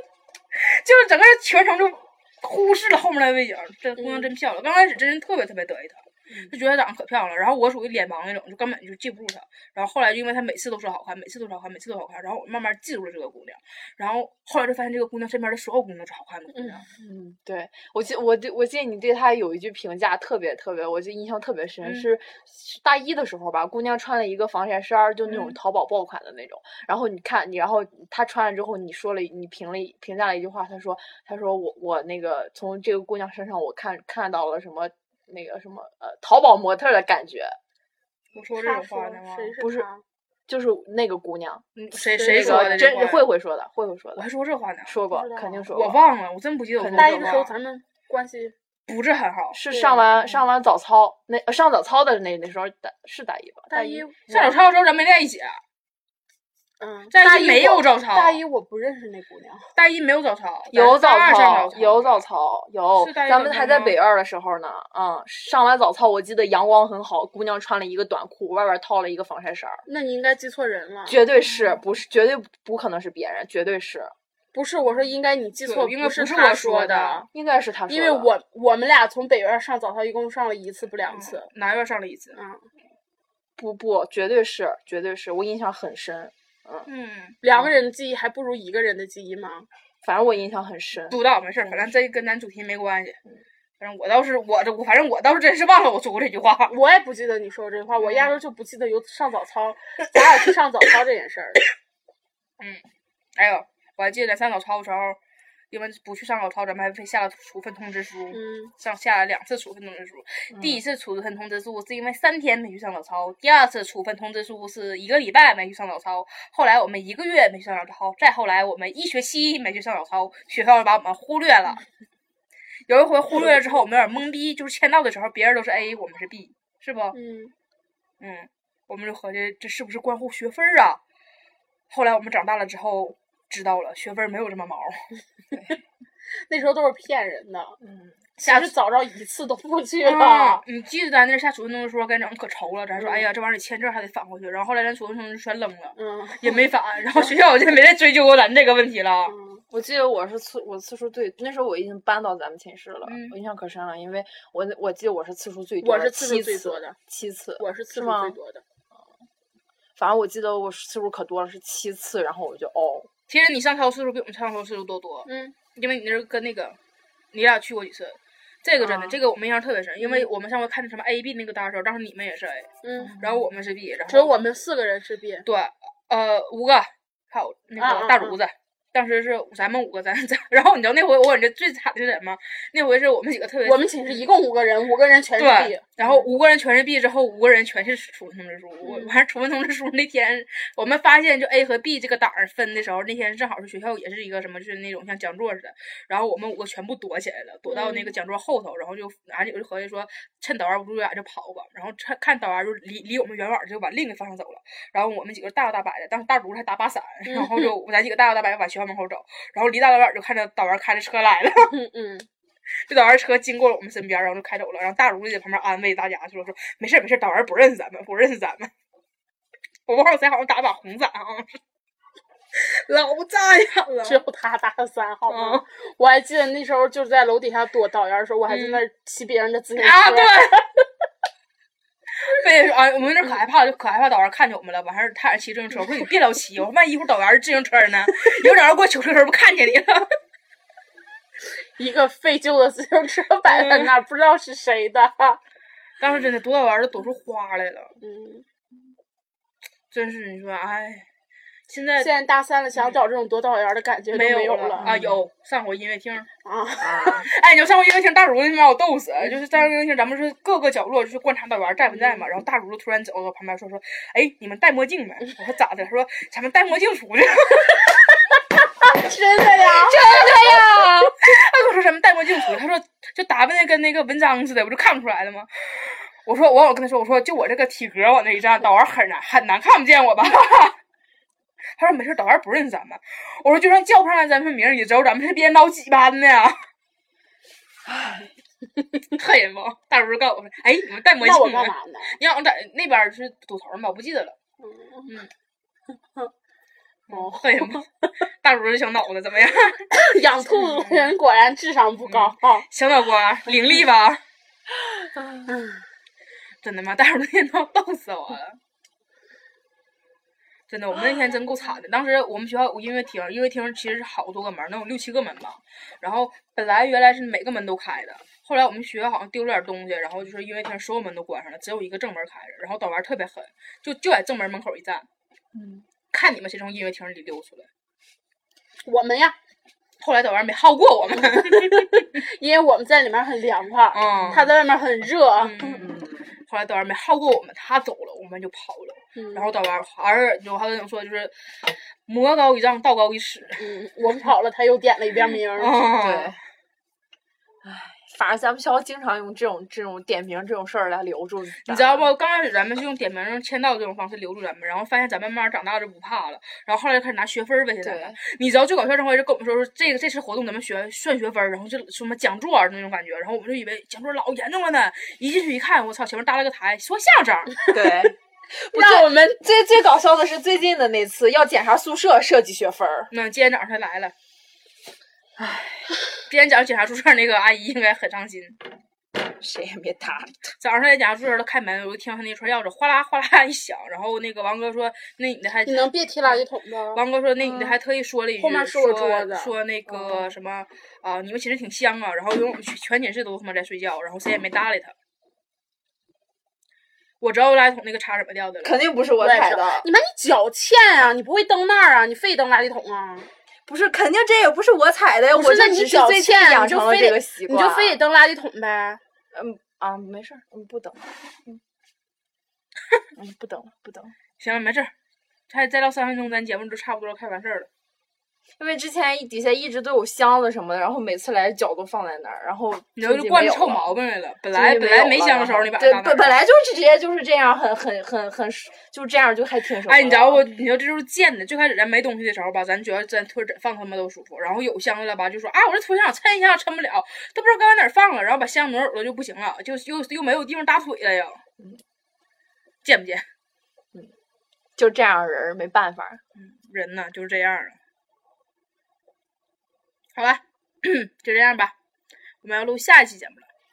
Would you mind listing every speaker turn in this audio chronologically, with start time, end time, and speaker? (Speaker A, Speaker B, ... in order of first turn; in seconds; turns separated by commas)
Speaker A: 0.5-16.9, Speaker B: 4.0-4.3, Speaker B: 16.5-16.8, Speaker C: 16.9-37.6, Speaker A: 21.8-22.1, Speaker A: 25.3-25.6, Speaker A: 38.3-39.5, Speaker B: 38.5-40.0, Speaker C: 39.6-39.9, Speaker C: 40.5-41.6, Speaker A: 41.8-43.3, Speaker B: 41.9-43.0, Speaker C: 42.2-44.2, Speaker A: 44.1-45.0, Speaker C: 44.9-46.0, Speaker B: 45.1-45.7, Speaker A: 45.7-47.5, Speaker C: 46.8-47.5, Speaker B: 47.0-48.5, Speaker A: 48.9-49.6, Speaker C: 49.5-54.1, Speaker B: 49.7-50.4, Speaker B: 53.7-54.6, Speaker A: 54.3-55.6, Speaker B: 56.8-59.7, Speaker A: 57.1-58.4, Speaker A: 59.7-62.2, Speaker C: 60.7-69.8, Speaker A: 63.0-64.0, Speaker B: 69.8-71.2, Speaker C: 71.0-74.1, Speaker B: 74.5-77.3, Speaker A: 75.6-77.3, Speaker C: 77.3-78.3, Speaker B: 77.9-81.5, Speaker A: 81.0-82.4, Speaker B: 82.3-82.7, Speaker C: 83.6-86.9, Speaker A: 86.9-87.4, Speaker B: 87.4-89.7, Speaker C: 90.0-91.9, Speaker A: 91.1-93.2, Speaker A: 93.8-96.7, Speaker B: 96.7-101.7, Speaker A: 98.0-98.4, Speaker A: 103.3-105.2, Speaker A: 105.7-121.8, Speaker B: 108.3-108.7, Speaker A: 122.9-127.1, Speaker B: 127.1-127.5, Speaker A: 128.2-131.0, Speaker A: 131.9-135.2, Speaker B: 136.5-137.8, Speaker C: 137.8-138.2, Speaker A: 138.4-138.7, Speaker B: 138.4-140.6, Speaker A: 140.0-149.3, Speaker B: 143.0-143.3, Speaker B: 145.9-147.3, Speaker B: 149.3-149.6, Speaker C: 149.7-158.4, Speaker A: 153.0-153.3, Speaker B: 155.8-157.0, Speaker B: 157.6-158.6, Speaker C: 159.9-163.1, Speaker A: 163.3-166.8, Speaker B: 165.2-165.6, Speaker A: 167.3-174.3, Speaker C: 168.8-169.2, Speaker B: 170.0-170.3, Speaker B: 172.8-173.1, Speaker C: 173.0-173.6, Speaker B: 174.1-175.4, Speaker A: 175.4-184.3, Speaker B: 177.8-178.4, Speaker B: 183.6-186.3, Speaker A: 185.4-211.7, Speaker B: 188.8-189.2, Speaker B: 197.7-198.1, Speaker B: 207.3-207.7, Speaker B: 211.7-212.3, Speaker A: 212.8-218.7, Speaker A: 219.8-221.5, Speaker A: 222.5-224.2, Speaker B: 224.0-230.4, Speaker A: 225.3-225.6, Speaker A: 228.5-228.8, Speaker A: 229.8-230.6, Speaker A: 232.2-240.1, Speaker B: 241.6-245.4, Speaker A: 243.4-243.9, Speaker A: 246.0-247.9, Speaker B: 248.0-248.4, Speaker A: 249.9-251.1, Speaker A: 251.7-252.1, Speaker B: 252.0-254.9, Speaker A: 254.1-256.3, Speaker C: 254.8-255.2, Speaker B: 256.4-257.2, Speaker C: 256.8-257.3, Speaker A: 257.0-268.0, Speaker B: 261.9-262.3, Speaker B: 268.8-271.1, Speaker C: 269.6-271.0, Speaker A: 269.9-270.6, Speaker A: 271.2-280.8, Speaker A: 281.8-286.6, Speaker C: 287.9-288.2, Speaker A: 289.1-294.4, Speaker B: 291.2-292.2, Speaker B: 294.6-295.1, Speaker A: 297.1-301.1, Speaker B: 297.1-297.8, Speaker B: 299.9-302.7, Speaker A: 302.1-304.2, Speaker B: 305.5-305.8, Speaker A: 306.6-308.6, Speaker A: 310.7-325.1, Speaker C: 325.5-325.8, Speaker A: 326.1-327.7, Speaker B: 328.8-329.4, Speaker A: 330.0-332.1, Speaker B: 331.2-335.6, Speaker A: 333.9-334.5, Speaker C: 334.2-334.4, Speaker A: 335.4-335.9, Speaker C: 335.6-336.3, Speaker A: 336.4-343.6, Speaker B: 339.1-339.5, Speaker B: 343.6-345.8, Speaker A: 345.5-346.3, Speaker C: 346.0-346.4, Speaker C: 347.6-352.1, Speaker A: 351.6-367.6, Speaker C: 357.8-358.2, Speaker C: 367.7-373.1, Speaker B: 368.7-369.4, Speaker A: 373.1-374.1, Speaker C: 375.4-375.9, Speaker A: 376.3-378.6, Speaker C: 379.4-380.5, Speaker A: 380.6-394.9, Speaker B: 385.6-387.0, Speaker C: 387.4-387.8, Speaker B: 388.4-389.5, Speaker C: 389.9-390.3, Speaker A: 397.2-398.8, Speaker C: 398.6-399.9, Speaker B: 399.2-403.3, Speaker C: 403.7-408.0, Speaker B: 405.3-409.0, Speaker C: 409.3-411.6, Speaker C: 413.1-414.1, Speaker A: 414.4-414.9, Speaker A: 415.5-417.7, Speaker C: 418.6-423.9, Speaker A: 423.0-426.4, Speaker C: 424.5-430.4, Speaker A: 429.8-441.4, Speaker A: 442.8-443.2, Speaker C: 444.8-446.2, Speaker A: 446.4-447.8, Speaker A: 450.1-451.7, Speaker A: 452.4-453.4